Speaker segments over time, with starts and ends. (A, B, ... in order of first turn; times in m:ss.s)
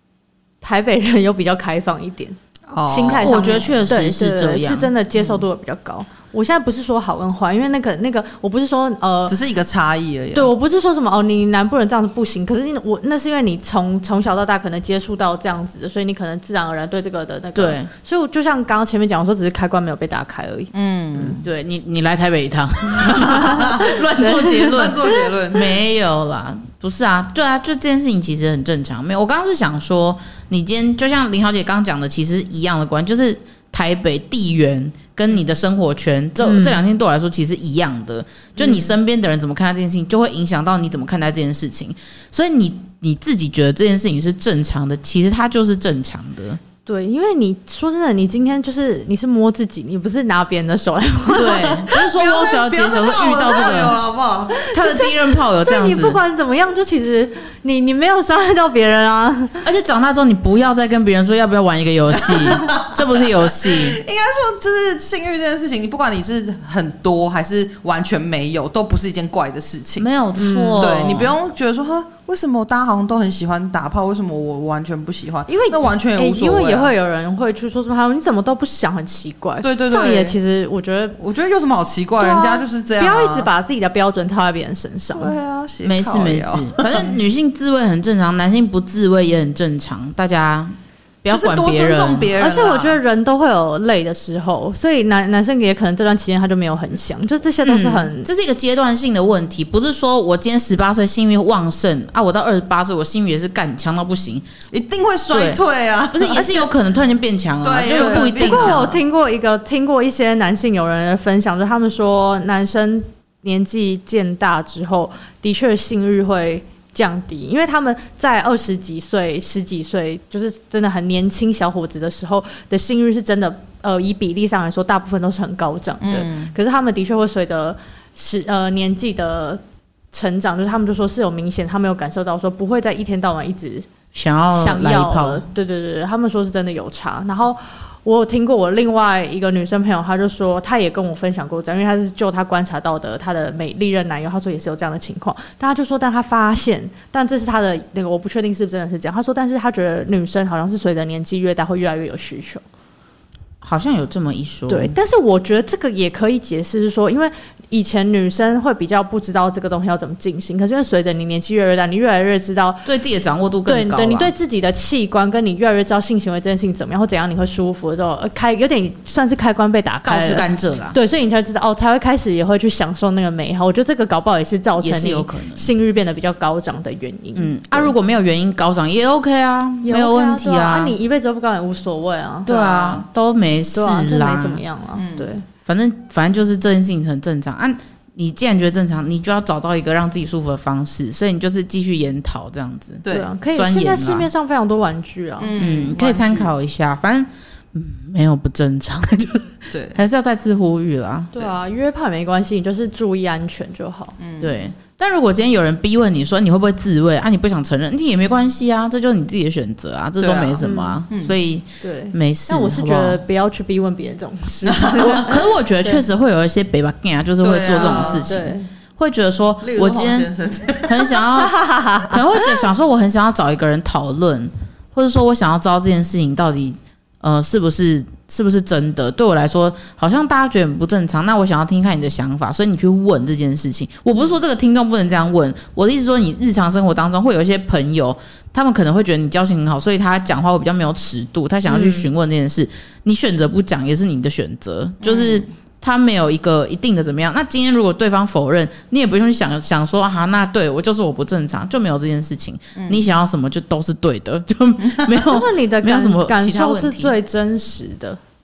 0:00.6-0:09.4 A
0:02.7-0:03.3 B
0:03.2-0:04.9 C
0:09.3-0:10.5 B
0:10.3-0:21.4 A
0:17.5-0:17.9 C
0:20.7-0:21.4 B
0:21.4-0:46.6 C
0:23.2-0:25.1 A
0:23.2-0:25.8 B
0:36.4-0:36.8 A
0:38.6-0:38.9 A
0:46.8-0:51.8 A
0:51.3-0:54.0 C
0:51.6-0:54.7 B
0:54.5-0:59.6 A
0:54.6-0:56.2 C
0:59.6-1:04.0 C
1:02.2-1:10.1 B
1:10.0-1:11.3 C
1:10.4-1:10.9 A
1:10.8-1:16.9 B
1:15.5-1:21.2 A
1:19.6-1:20.4 B
1:21.2-1:23.5 B
1:22.2-1:25.3 A
1:25.1-1:27.1 B
1:25.8-1:32.3 C
1:31.3-1:33.0 B
1:32.4-1:38.3 A
1:37.6-1:44.4 C
1:44.7-1:46.7 B
1:45.3-1:45.6 C
1:46.1-1:48.9 C
1:47.6-1:49.0 B
1:47.9-2:13.9 A
2:06.0-2:06.5 B
2:14.1-2:15.4 C
2:14.5-2:32.6 A
2:33.6-2:34.9 C
2:34.7-2:42.8 A
2:42.8-2:44.3 C
2:43.6-2:57.9 A
2:50.0-2:51.0 C
2:54.8-2:55.7 C
2:57.3-3:01.0 C
2:59.8-3:03.0 A
3:02.4-3:04.6 C
3:03.7-3:05.4 A
3:05.0-3:05.3 B
3:05.6-3:14.3 C
3:13.0-3:13.3 B
3:13.1-3:15.5 A
3:15.4-3:16.5 B
3:15.6-3:21.3 C
3:19.7-3:20.0 B
3:21.3-3:24.2 A
3:24.2-3:24.6 B
3:24.4-3:33.2 C
3:30.2-3:31.4 B
3:30.6-3:31.0 A
3:31.8-3:36.0 A
3:34.6-3:35.2 B
3:35.0-3:40.3 C
3:37.4-3:38.3 B
3:37.8-3:38.7 A
3:39.6-3:41.2 B
3:40.8-4:17.1 C
3:41.4-3:42.6 A
4:01.7-4:02.1 A
4:05.0-4:05.5 B
4:12.8-4:13.0 B
4:14.8-4:15.2 B
4:15.2-4:18.2 A